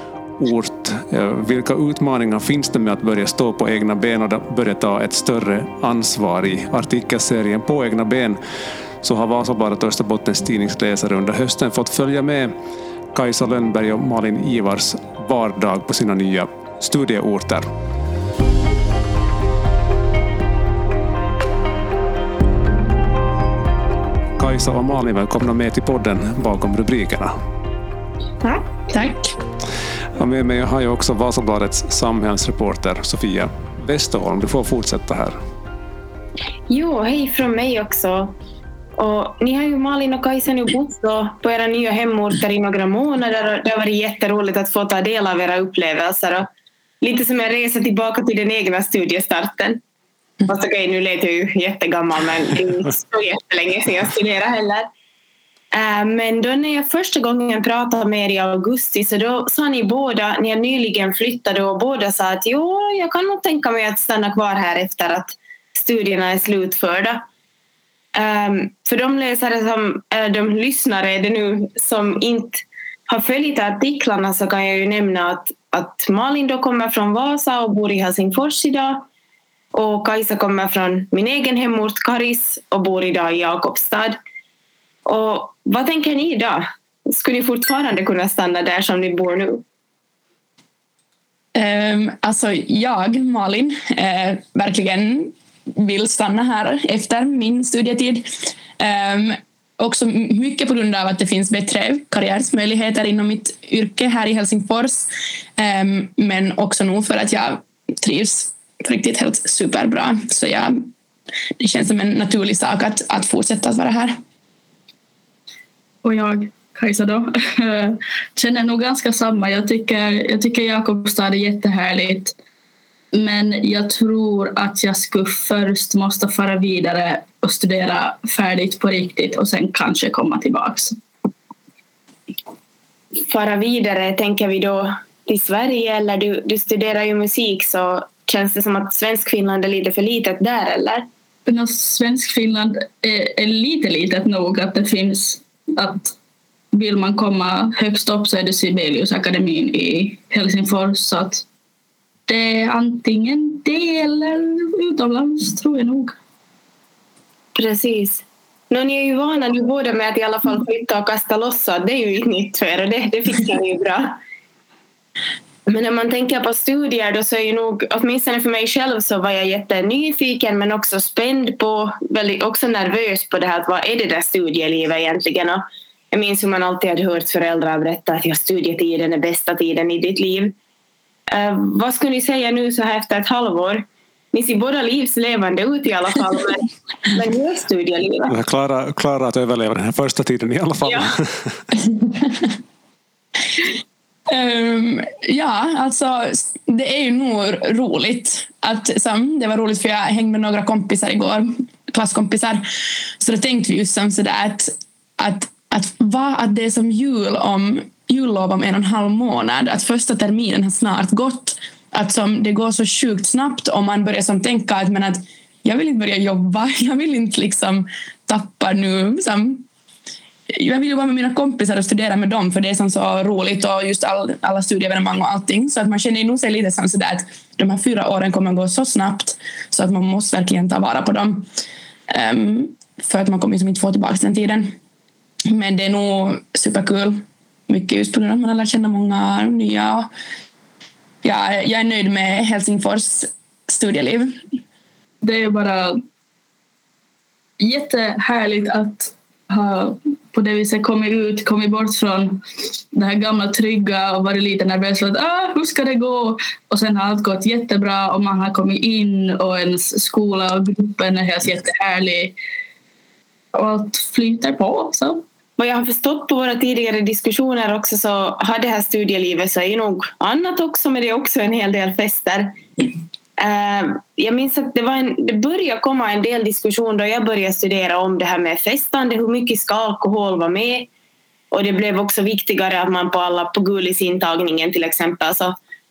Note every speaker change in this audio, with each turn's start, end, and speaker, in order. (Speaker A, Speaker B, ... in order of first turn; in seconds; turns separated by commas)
Speaker A: 0.4-8.4, Speaker A: 9.0-12.5, Speaker A: 13.1-17.7, Speaker A: 24.4-27.3, Speaker B: 28.4-29.4, Speaker A: 30.1-35.4, Speaker C: 36.7-38.3, Speaker C: 39.0-46.5, Speaker C: 47.0-49.8, Speaker C: 50.4-54.9, Speaker C: 55.7-67.2, Speaker C: 68.1-79.0, Speaker C: 79.7-84.2, Speaker C: 85.0-89.6, Speaker B: 91.5-110.9, Speaker B: 111.6-114.2, Speaker D: 116.0-122.3, Speaker D: 123.1-131.0, Speaker C: 133.3-141.1, Speaker D: 141.5-146.2, Speaker D: 146.7-151.5, Speaker D: 152.3-156.2, Speaker C: 157.6-164.2, Speaker C: 165.7-180.6, Speaker C: 181.3-188.3, Speaker A: 188.3-191.6, Speaker B: 194.3-202.6, Speaker B: 203.2-219.7, Speaker B: 220.5-231.5, Speaker B: 232.1-234.8, Speaker B: 235.5-240.1, Speaker B: 241.2-244.4, Speaker D: 245.2-246.0, Speaker D: 247.6-262.4, Speaker D: 263.5-265.2, Speaker C: 265.6-272.6, Speaker C: 273.4-280.9, Speaker C: 281.5-285.6